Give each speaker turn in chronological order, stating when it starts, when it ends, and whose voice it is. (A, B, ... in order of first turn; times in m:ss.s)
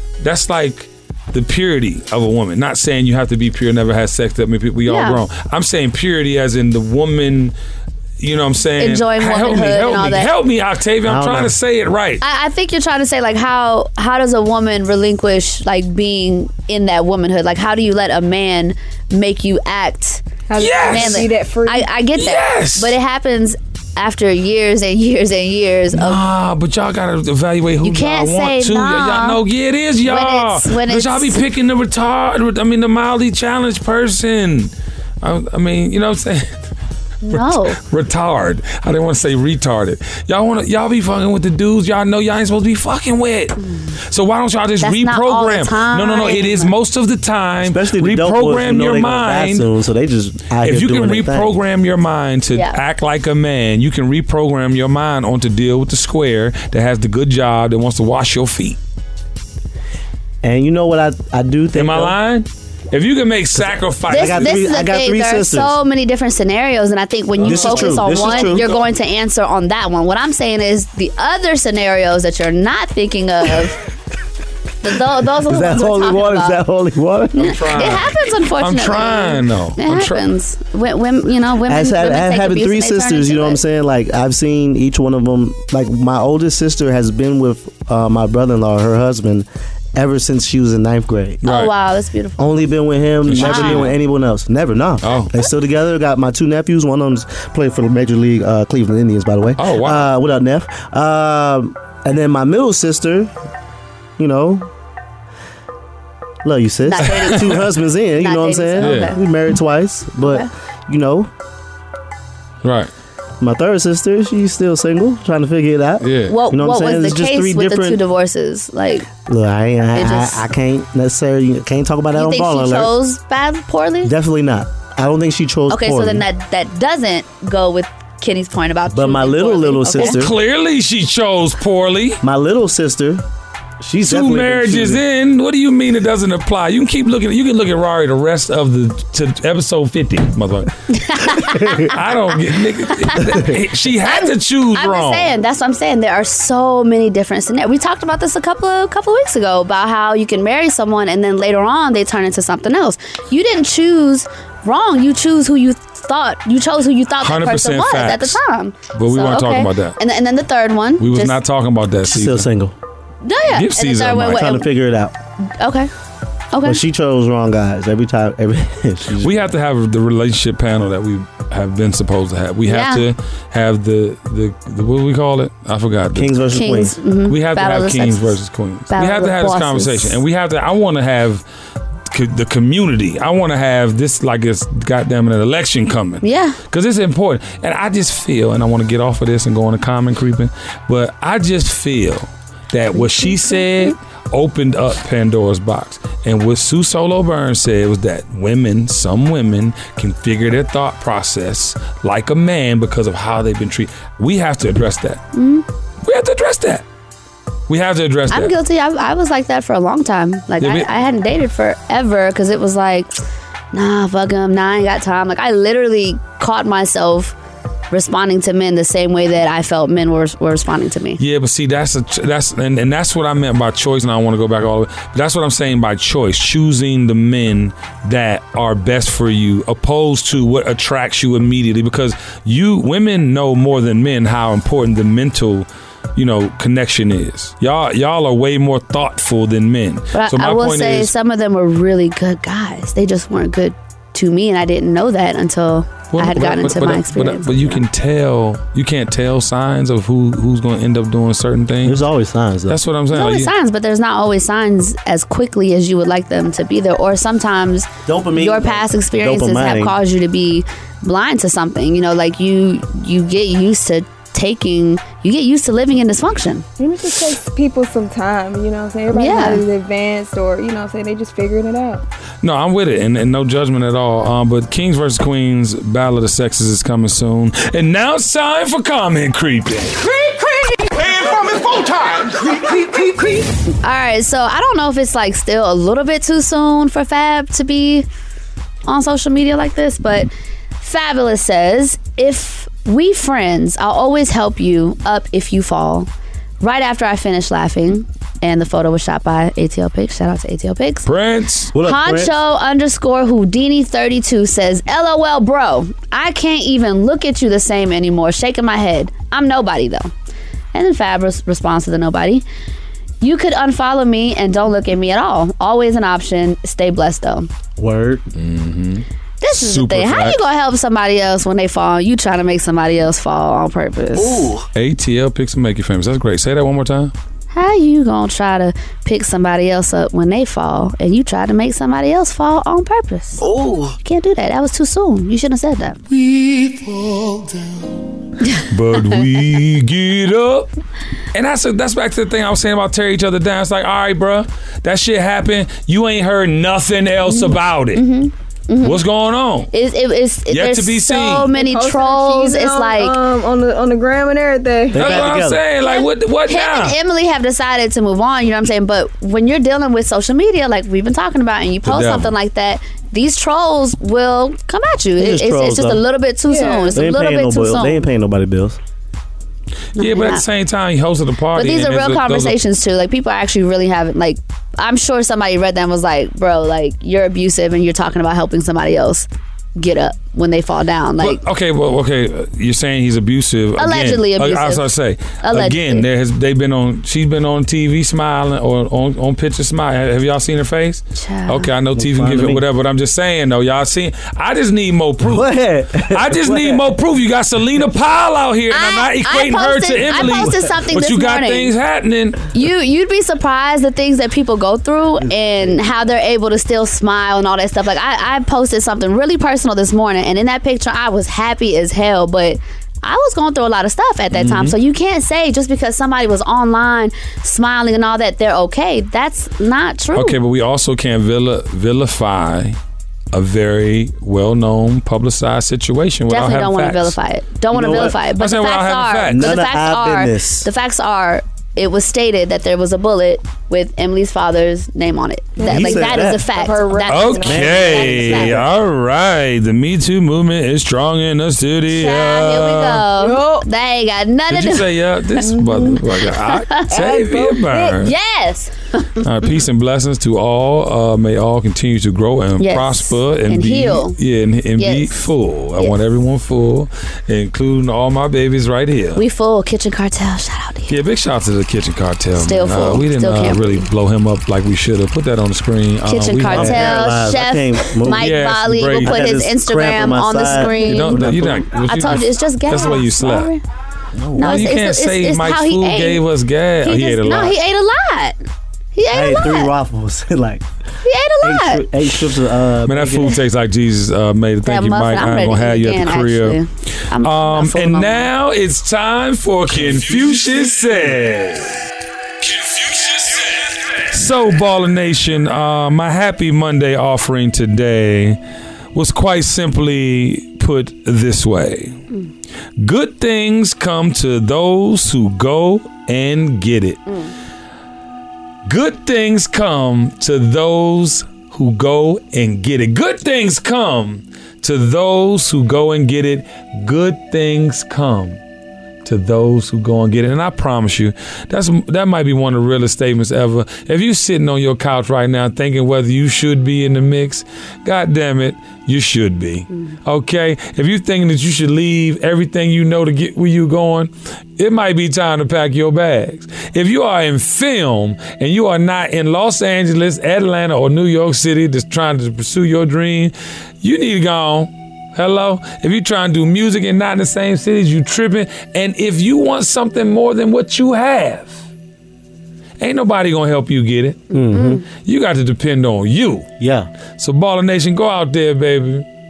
0:00.2-0:07.6 A
0:04.9-0:05.2 B
0:08.2-0:12.2 A
0:08.8-0:10.3 B
0:11.0-0:11.6 C
0:12.2-0:20.2 B
0:20.5-0:21.9 D
0:20.6-0:21.3 A
0:20.9-0:26.2 B
0:22.2-0:23.0 A
0:25.9-0:36.5 A
0:27.8-0:29.4 B
0:30.0-0:31.4 B
0:37.2-0:37.8 B
0:37.3-0:49.7 A
0:43.6-0:44.0 B
0:44.8-0:46.7 B
0:47.6-0:51.5 C
0:50.6-0:58.8 A
1:00.4-1:02.2 C
1:01.8-1:04.6 A
1:03.6-1:05.8 C
1:04.1-1:13.8 B
1:07.4-1:08.7 A
1:07.4-1:08.8 C
1:14.8-1:16.6 B
1:15.5-1:17.7 C
1:17.4-1:20.3 A
1:17.4-1:23.6 B
1:21.7-1:31.4 C
1:31.4-1:31.7 A
1:31.4-1:32.7 B
1:32.4-1:43.3 C
1:33.3-1:33.9 A
1:33.3-1:33.9 B
1:35.0-1:35.3 A
1:39.6-1:40.1 A
1:44.2-1:44.7 C
1:46.4-1:51.3 C
1:46.8-1:49.2 B
1:48.8-1:49.1 A
1:50.2-1:50.5 B
1:52.6-1:52.9 A
1:53.4-1:58.0 C
1:56.0-1:56.4 A
1:56.3-1:59.1 B
1:59.2-2:03.0 C
1:59.9-2:00.4 B
2:02.1-2:04.1 B
2:04.0-2:06.2 C
2:05.7-2:10.2 B
2:08.9-2:10.4 C
2:10.0-2:12.2 A
2:12.2-2:13.2 C
2:13.8-2:15.0 C
2:14.0-2:25.3 A
2:20.9-2:22.0 B
2:21.5-2:21.9 C
2:23.1-2:23.5 B
2:24.0-2:41.4 B
2:37.2-2:38.4 A
2:38.9-2:40.0 A
2:41.0-2:42.5 A
2:42.1-2:42.7 C
2:43.2-2:44.7 B
2:43.5-2:44.5 A
2:44.3-2:45.1 C
2:45.6-2:45.9 B
2:46.5-2:46.8 B
2:46.6-2:49.5 C
2:49.2-2:56.4 A
2:52.7-2:53.0 B
2:56.1-2:57.0 C
2:56.6-2:58.4 B
2:57.3-3:01.4 A
2:58.9-3:00.2 B
3:02.1-3:25.2 A
3:06.2-3:06.6 B
3:13.0-3:13.9 B
3:25.3-3:25.7 B
3:26.0-3:26.8 A
3:27.7-3:28.5 A
3:28.3-3:33.1 B
3:30.6-3:30.9 A
3:33.7-3:37.4 B
3:37.9-3:41.2 B
3:41.2-4:01.1 A
4:00.1-4:07.8 B
4:06.1-4:12.0 A
4:11.8-4:12.8 C
4:12.7-4:13.5 A
4:13.1-4:26.7 B
4:18.1-4:20.0 C
4:26.8-4:32.0 D
4:29.1-4:29.6 B
4:32.4-4:40.0 A
4:40.1-4:43.4 E
4:43.8-4:48.1 B
4:48.9-4:50.3 B
4:50.8-4:56.1 B
4:56.6-5:01.1 B
5:01.1-5:01.7 A
5:01.7-5:02.4 C
5:01.8-5:10.1 B
5:10.7-5:12.4 B
5:13.2-5:17.5 B
5:17.8-5:18.2 C
5:18.4-5:20.4 A
5:19.4-5:24.5 B
5:24.2-5:24.6 E
5:24.8-5:27.1 A
5:27.5-5:33.4 B
5:33.4-5:33.9 E
5:34.0-5:36.0 B
5:38.7-5:40.7 A
5:41.3-5:48.0 A
5:47.3-5:49.0 B
5:48.8-5:49.7 A
5:49.7-5:53.2 B
5:50.5-5:51.5 A
5:51.5-5:55.2 D
5:54.9-5:55.6 C
5:54.9-5:57.0 A
5:55.8-6:08.1 B
6:01.8-6:02.3 A
6:05.2-6:06.0 C
6:06.5-6:07.0 D
6:06.9-6:08.8 C
6:10.0-6:12.6 A
6:10.0-6:10.4 B
6:11.6-6:21.4 B
6:21.2-6:35.5 A
6:23.8-6:24.8 B
6:25.4-6:26.0 B
6:31.2-6:31.7 B
6:32.0-6:32.6 C
6:35.2-6:36.8 C
6:36.1-6:42.5 A
6:38.7-6:41.7 B
6:42.5-7:00.4 B
6:45.2-6:45.8 C
6:54.3-6:54.8 A
7:00.2-7:02.8 A
7:03.3-7:07.2 A
7:06.3-7:18.6 B
7:07.7-7:08.2 C
7:08.2-7:09.6 A
7:09.3-7:10.7 C
7:15.6-7:18.3 D
7:15.6-7:16.5 C
7:17.1-7:23.1 A
7:17.4-7:18.7 C
7:21.9-7:24.8 B
7:23.2-7:23.7 D
7:24.5-7:28.1 A
7:25.4-7:26.9 B
7:25.5-7:26.0 D
7:26.9-7:28.0 D
7:27.9-7:29.3 B
7:29.2-7:39.2 A
7:32.6-7:34.2 B
7:34.8-7:35.3 B
7:39.2-7:41.0 B
7:40.9-7:47.2 A
7:42.4-7:43.8 B
7:46.1-7:53.6 B
7:46.5-7:48.4 C
7:48.0-7:49.2 A
7:49.0-7:51.7 C
7:50.7-7:53.5 A
7:54.1-7:54.8 C
7:54.4-7:56.2 B
7:54.4-7:57.6 A
7:56.8-7:58.4 B
7:59.0-7:59.7 B
7:59.1-8:00.6 C
8:01.0-8:01.9 B
8:01.4-8:03.4 C
8:02.9-8:06.6 A
8:04.6-8:08.3 B
8:07.2-8:11.8 A
8:12.4-8:18.4 A
8:18.9-8:22.0 A
8:22.8-8:27.0 A
8:28.7-8:38.4 A
8:39.0-9:11.7 A
9:12.8-9:14.3 A
9:14.3-9:14.8 C
9:14.3-9:14.8 B
9:15.0-9:16.5 A
9:16.6-9:16.9 C
9:17.2-9:19.1 A